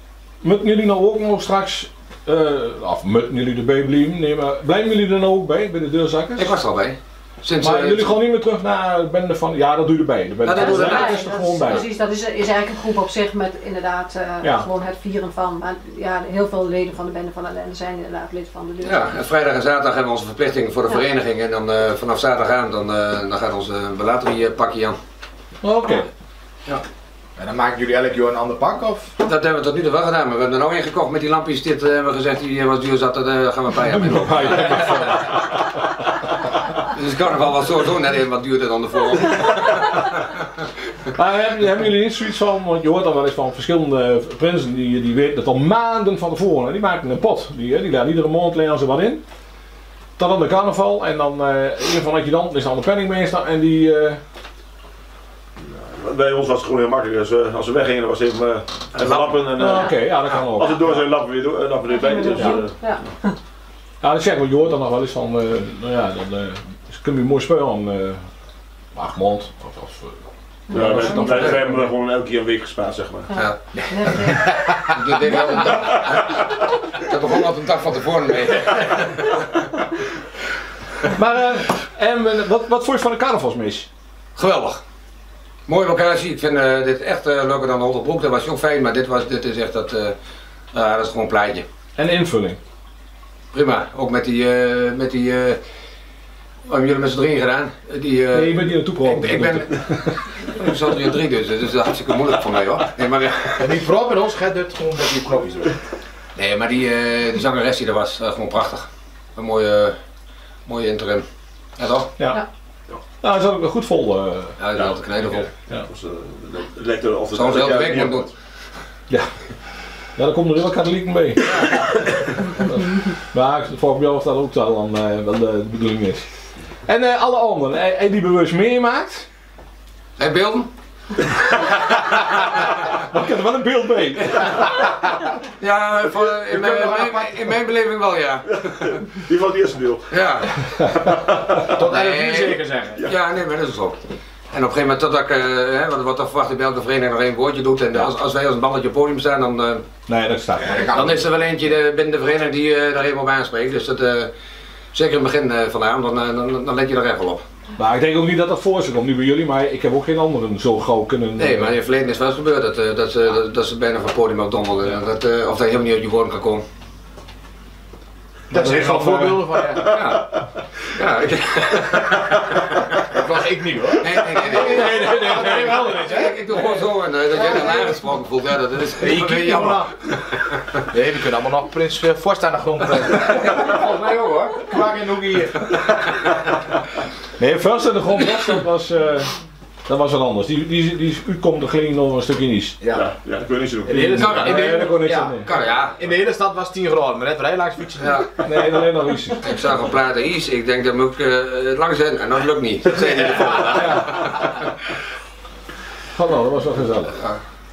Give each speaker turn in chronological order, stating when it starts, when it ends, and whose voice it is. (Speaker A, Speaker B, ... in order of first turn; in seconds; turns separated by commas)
Speaker A: 0.4-6.6, Speaker B: 6.4-8.2, Speaker A: 7.6-11.9, Speaker B: 10.4-11.3, Speaker C: 10.5-19.1, Speaker A: 14.4-14.7, Speaker B: 18.8-25.0, Speaker A: 25.6-26.1, Speaker D: 27.4-29.1, Speaker B: 29.2-35.4, Speaker A: 33.8-35.9, Speaker B: 36.8-40.4, Speaker A: 41.1-49.2, Speaker A: 50.2-54.2, Speaker E: 55.6-63.1, Speaker A: 59.0-61.1, Speaker C: 61.9-63.4, Speaker A: 62.4-62.6, Speaker A: 64.0-68.3, Speaker A: 68.9-70.2, Speaker C: 70.7-71.7, Speaker E: 70.7-73.3, Speaker A: 70.7-71.9, Speaker B: 71.2-71.5, Speaker C: 73.3-74.5, Speaker D: 73.8-74.8, Speaker B: 74.9-79.5, Speaker C: 75.2-76.0, Speaker E: 75.8-76.3, Speaker A: 81.0-83.9, Speaker B: 84.4-84.8, Speaker B: 85.7-90.2, Speaker B: 90.7-91.7, Speaker A: 92.0-92.6, Speaker B: 93.5-95.6, Speaker B: 96.7-103.8, Speaker A: 98.3-100.2, Speaker D: 103.6-105.8, Speaker B: 106.4-110.0, Speaker B: 110.7-111.3, Speaker B: 111.8-112.1, Speaker A: 113.2-114.6, Speaker B: 114.6-115.5, Speaker E: 114.8-118.3, Speaker B: 117.3-118.3, Speaker A: 119.1-119.6, Speaker A: 120.1-126.3, Speaker A: 126.9-129.3, Speaker B: 130.2-130.7, Speaker A: 132.9-134.5, Speaker B: 135.6-139.0, Speaker D: 136.5-137.3, Speaker E: 138.5-140.3, Speaker B: 140.1-140.5, Speaker E: 140.8-141.7, Speaker D: 141.7-143.0, Speaker B: 141.7-149.9, Speaker A: 150.1-150.9, Speaker D: 150.6-151.3, Speaker B: 150.9-154.3, Speaker B: 154.9-157.4, Speaker A: 157.8-161.7, Speaker B: 161.4-166.6, Speaker A: 168.5-169.6, Speaker D: 168.5-170.0, Speaker B: 169.8-170.3, Speaker B: 170.9-172.8, Speaker D: 173.1-176.5, Speaker B: 174.0-180.8, Speaker A: 174.6-176.1, Speaker D: 177.3-178.0, Speaker D: 179.0-179.9, Speaker D: 180.9-185.8, Speaker B: 183.4-184.4, Speaker A: 187.4-189.3, Speaker A: 189.9-192.8, Speaker E: 192.9-194.5, Speaker D: 193.9-198.3, Speaker A: 193.9-195.5, Speaker B: 194.2-194.8, Speaker B: 195.4-196.0, Speaker B: 198.0-198.3, Speaker A: 198.4-199.5, Speaker B: 199.4-204.6, Speaker A: 203.7-204.2, Speaker A: 206.1-207.2